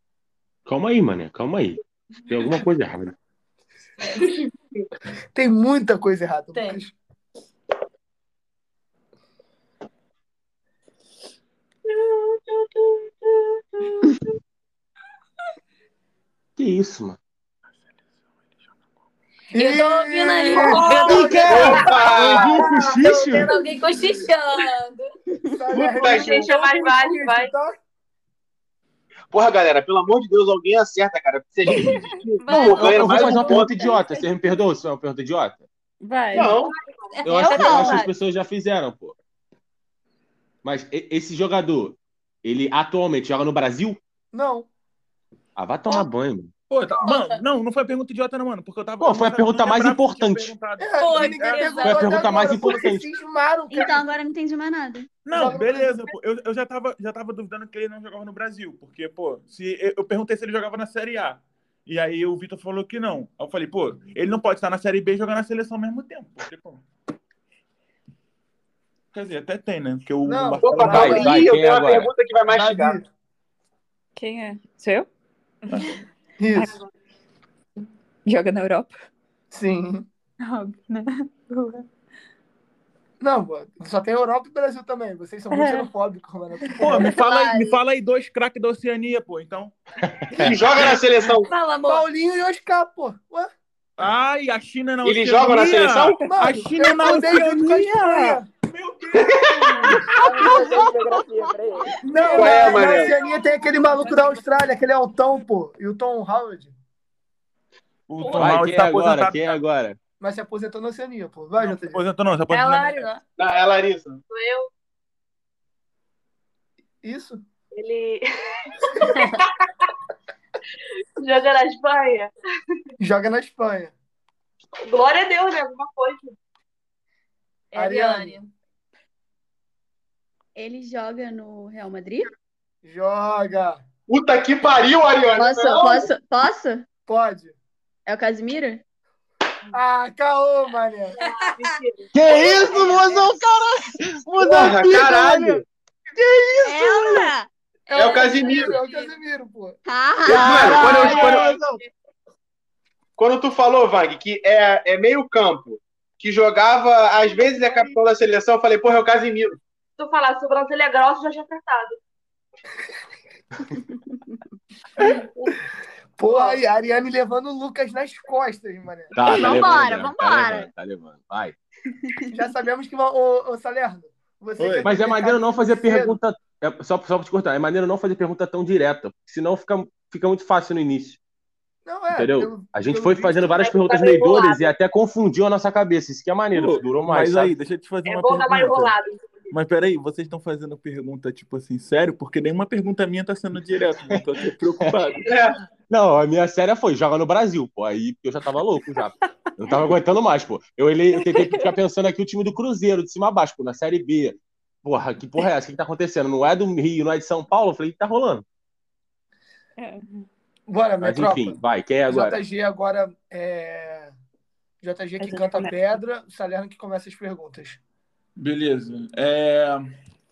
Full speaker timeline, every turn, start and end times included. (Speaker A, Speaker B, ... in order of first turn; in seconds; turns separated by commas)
Speaker A: 0.7-3.1, Speaker B: 4.0-4.4, Speaker C: 5.3-6.9, Speaker B: 6.5-6.8, Speaker D: 11.9-14.3, Speaker A: 16.6-17.2, Speaker C: 19.5-21.8, Speaker B: 19.6-25.1, Speaker D: 20.5-23.0, Speaker A: 21.0-23.5, Speaker E: 21.5-22.6, Speaker C: 25.5-27.8, Speaker E: 25.7-26.5, Speaker D: 25.9-27.5, Speaker E: 29.3-33.9, Speaker B: 32.4-34.0, Speaker A: 32.5-35.6, Speaker F: 36.0-36.6, Speaker E: 36.3-36.7, Speaker B: 37.1-38.1, Speaker A: 37.2-39.1, Speaker G: 37.3-38.0, Speaker A: 40.6-44.0, Speaker C: 44.3-44.7, Speaker A: 45.6-46.5, Speaker H: 46.7-51.8, Speaker B: 47.0-47.4, Speaker A: 49.0-50.5, Speaker C: 50.8-54.0, Speaker B: 51.0-52.5, Speaker A: 51.8-53.1, Speaker G: 53.7-55.2, Speaker H: 55.2-66.8, Speaker C: 55.3-56.0, Speaker H: 69.1-71.3, Speaker C: 70.2-71.3, Speaker E: 70.6-73.0, Speaker A: 70.9-72.1, Speaker C: 72.5-73.1, Speaker F: 74.2-75.1, Speaker H: 75.7-76.0, Speaker C: 76.4-76.8, Speaker F: 78.2-78.9, Speaker C: 79.5-80.1, Speaker F: 80.4-81.8, Speaker C: 83.2-87.2, Speaker F: 85.5-85.9, Speaker H: 86.8-89.7, Speaker B: 87.2-87.7, Speaker A: 90.1-90.6, Speaker E: 90.4-91.5, Speaker B: 91.4-92.0, Speaker C: 91.9-93.5, Speaker H: 94.0-100.5, Speaker E: 95.0-96.2, Speaker C: 96.2-98.5, Speaker F: 100.1-102.4, Speaker C: 102.0-106.7, Speaker B: 102.1-104.6, Speaker E: 102.4-103.2, Speaker H: 108.1-109.6, Speaker B: 108.2-108.5, Speaker A: 108.3-110.0, Speaker C: 110.2-112.0, Speaker H: 111.6-113.1, Speaker B: 112.5-113.2, Speaker E: 113.4-114.2, Speaker D: 114.3-114.7, Speaker C: 117.0-117.4, Speaker D: 117.7-119.9, Speaker B: 119.0-119.4, Speaker D: 121.2-122.3, Speaker C: 123.0-123.9, Speaker D: 124.8-126.3, Speaker B: 127.7-128.5, Speaker C: 127.8-128.4, Speaker G: 130.6-132.3, Speaker C: 132.8-133.8, Speaker E: 134.1-136.1, Speaker G: 135.4-136.9, Speaker C: 137.1-137.6, Speaker G: 138.1-138.8, Speaker C: 139.7-141.2, Speaker D: 141.2-142.1, Speaker B: 141.2-141.5, Speaker A: 142.1-145.6, Speaker E: 144.4-145.6, Speaker A: 146.3-146.8, Speaker G: 146.6-147.5, Speaker C: 146.9-147.2, Speaker B: 147.9-149.1, Speaker E: 147.9-148.8, Speaker C: 147.9-149.8, Speaker G: 149.9-151.4, Speaker A: 150.2-151.8, Speaker E: 150.3-151.5, Speaker B: 150.9-151.6, Speaker E: 153.2-159.6, Speaker D: 160.0-162.0, Speaker D: 165.0-165.6, Speaker C: 166.2-169.2, Speaker D: 166.3-166.6, Speaker A: 169.1-171.6, Speaker G: 169.2-170.7, Speaker C: 172.3-176.2, Speaker H: 174.6-174.9, Speaker A: 174.8-181.2, Speaker C: 181.8-183.6, Speaker A: 182.1-187.5, Speaker D: 183.5-184.7, Speaker H: 186.5-188.9, Speaker D: 188.1-189.5, Speaker H: 189.5-195.3, Speaker E: 195.2-195.6, Speaker A: 195.9-208.4, Speaker F: 201.1-201.7, Speaker F: 209.8-210.2, Speaker C: 210.7-214.1, Speaker A: 211.0-212.4, Speaker C: 214.8-217.8, Speaker F: 215.2-216.0, Speaker H: 218.4-219.9